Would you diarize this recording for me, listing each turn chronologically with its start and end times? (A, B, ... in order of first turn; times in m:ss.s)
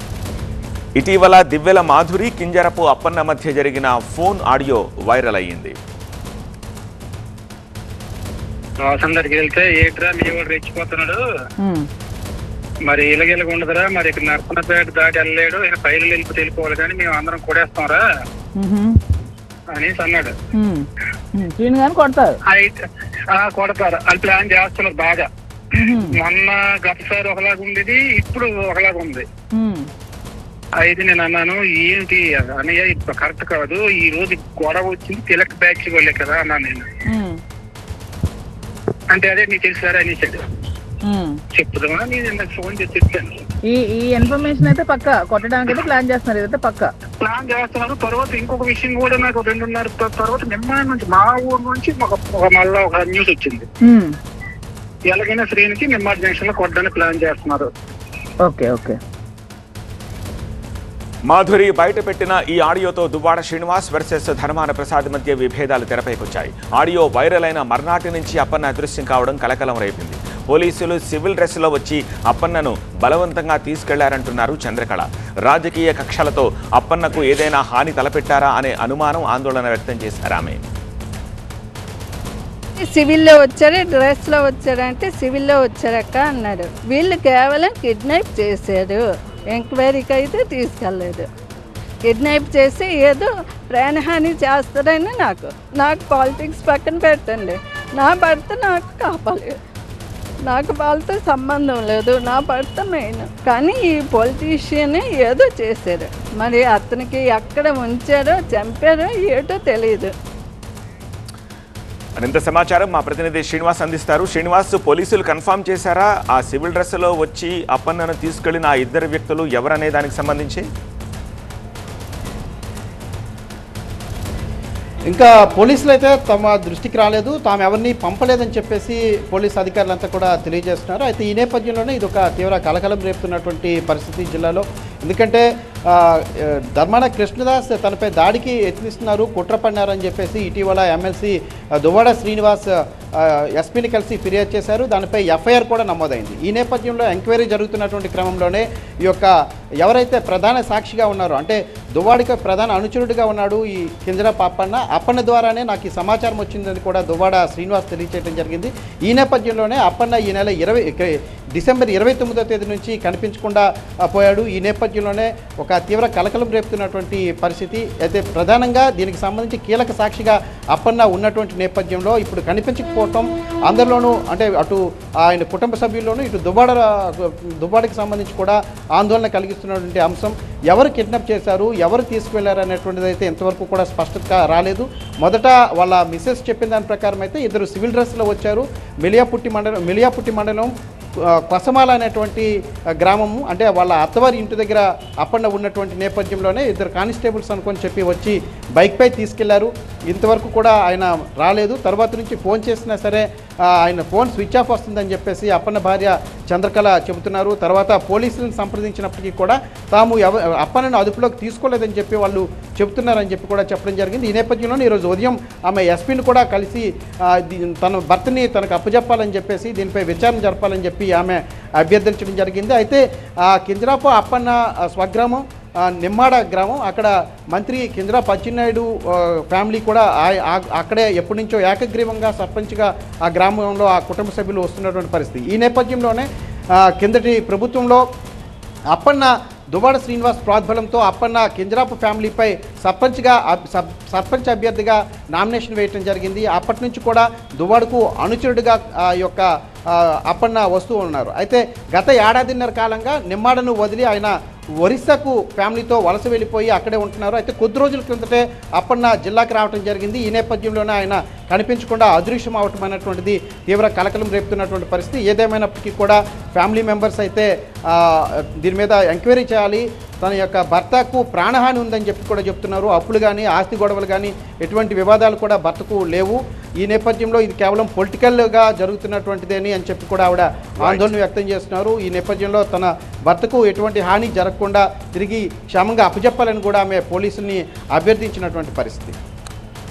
0:01.0-0:05.8 A
0:08.8-0:11.2 B
0:11.6-0:11.9 C
0:12.9-0:18.0 B
0:18.6-0:19.0 C
0:19.7-0:20.4 B
0:20.6-0:22.4 C
0:22.5-0:25.3 B
0:25.8-0:26.2 C
0:26.0-0:29.3 B
0:29.6-0:29.9 C
0:30.8-0:36.9 B
0:37.1-0:37.4 C
0:39.1-0:40.4 B
0:41.0-0:41.4 C
0:41.5-0:43.4 B
0:43.6-0:46.9 C
0:47.2-0:53.7 B
0:53.8-0:54.1 C
0:55.1-0:57.7 B
0:58.4-0:59.0 C
1:01.3-1:20.6 A
1:22.8-1:29.0 D
1:29.5-1:31.3 D
1:32.1-1:39.5 D
1:40.5-1:50.1 D
1:52.2-2:00.7 A
2:05.1-3:58.0 E
3:58.9-4:49.2 E
4:40.8-4:41.1 A